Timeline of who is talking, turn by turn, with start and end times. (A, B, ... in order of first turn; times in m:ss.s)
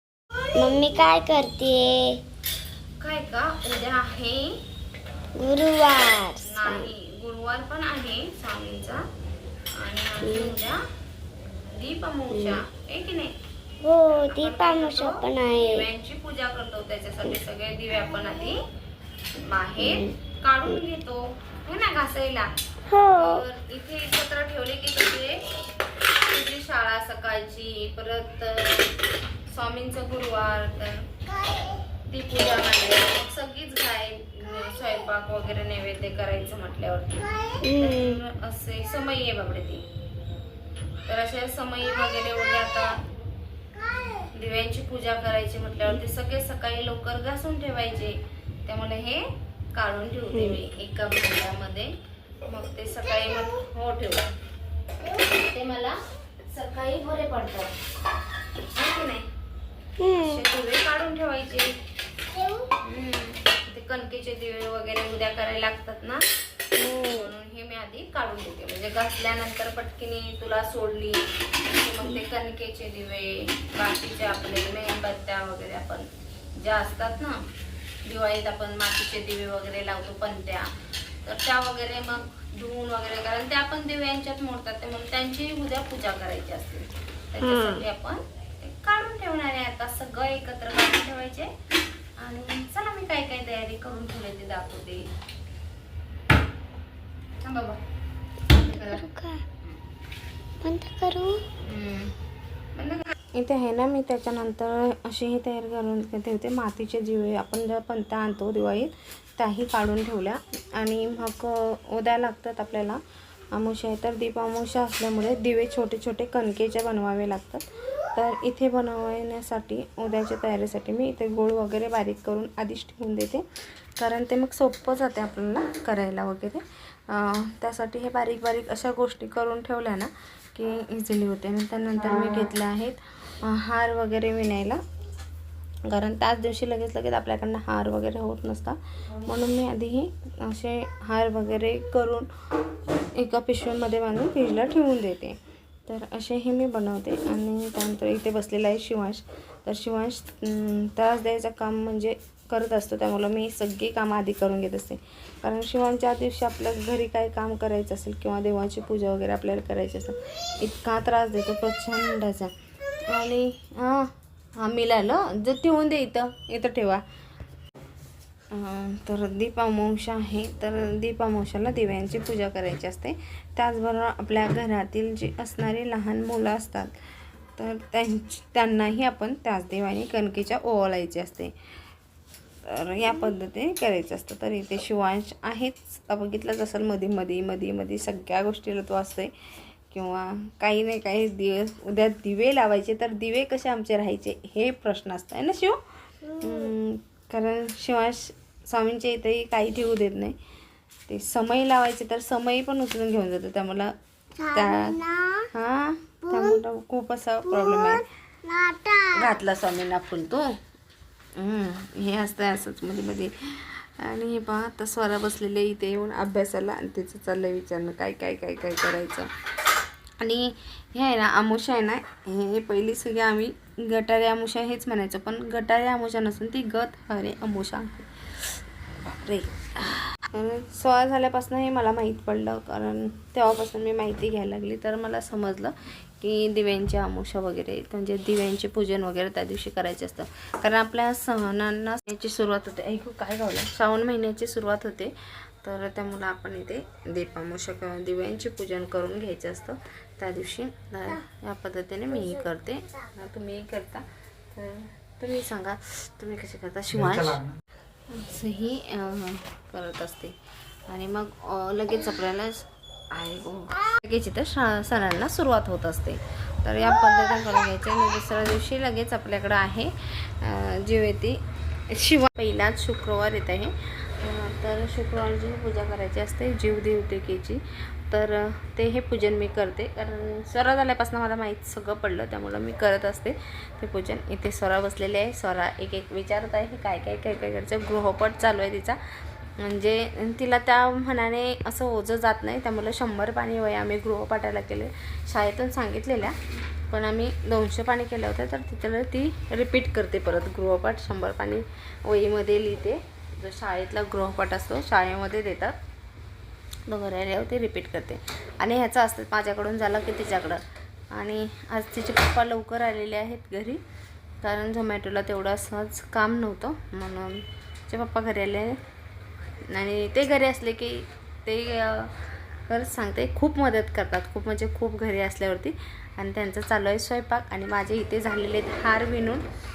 0:00.5-0:02.2 A
0:03.0-0:04.6 B
0:05.3-0:06.9 A
0:06.4-0:09.1 B
0:09.7-0:10.8 B
0:10.2-0:10.6 A
0:11.7-0:13.4 B
0:12.3-0:12.6 A
0:13.8-0:15.8 A
0:14.1-0:18.6 B
0:19.4-0:22.5 B
0:19.8-0:20.1 A
0:22.9-0:23.4 A
0:23.1-0:25.4 B
0:26.2-0:31.1 B
0:32.1-0:39.9 B
0:37.6-0:38.2 A
0:41.1-0:43.0 B
0:44.2-0:54.3 B
0:50.3-0:50.6 A
0:55.3-0:57.7 B
0:58.7-0:59.3 B
1:00.0-1:00.4 A
1:00.0-1:01.8 B
1:02.7-1:17.4 B
1:06.8-1:07.2 A
1:18.0-1:20.7 B
1:21.2-1:31.5 B
1:27.4-1:27.8 A
1:32.2-1:35.1 B
1:37.4-1:37.8 B
1:38.5-1:39.0 B
1:38.6-1:39.4 A
1:40.6-1:41.4 A
1:41.6-1:42.1 B
1:42.7-1:53.0 B
1:53.5-2:03.4 B
2:04.0-2:14.8 B
2:15.9-2:22.3 B
2:23.1-2:42.5 B
2:43.1-2:47.0 B
2:48.5-2:56.9 B
2:57.6-3:01.5 B
3:02.7-3:09.3 B
3:09.9-3:20.4 B
3:21.1-3:23.9 B
3:24.4-3:25.5 A
3:24.5-3:25.0 B
3:25.5-3:28.1 B
3:28.4-3:29.1 A
3:29.1-3:30.6 B
3:31.4-3:39.3 B
3:40.2-4:17.4 B
4:18.1-4:20.4 B
4:20.9-4:49.0 B
4:49.6-4:56.4 B
4:56.9-5:05.8 B
5:06.9-5:13.8 B
5:14.4-5:18.8 B
5:19.7-5:29.4 B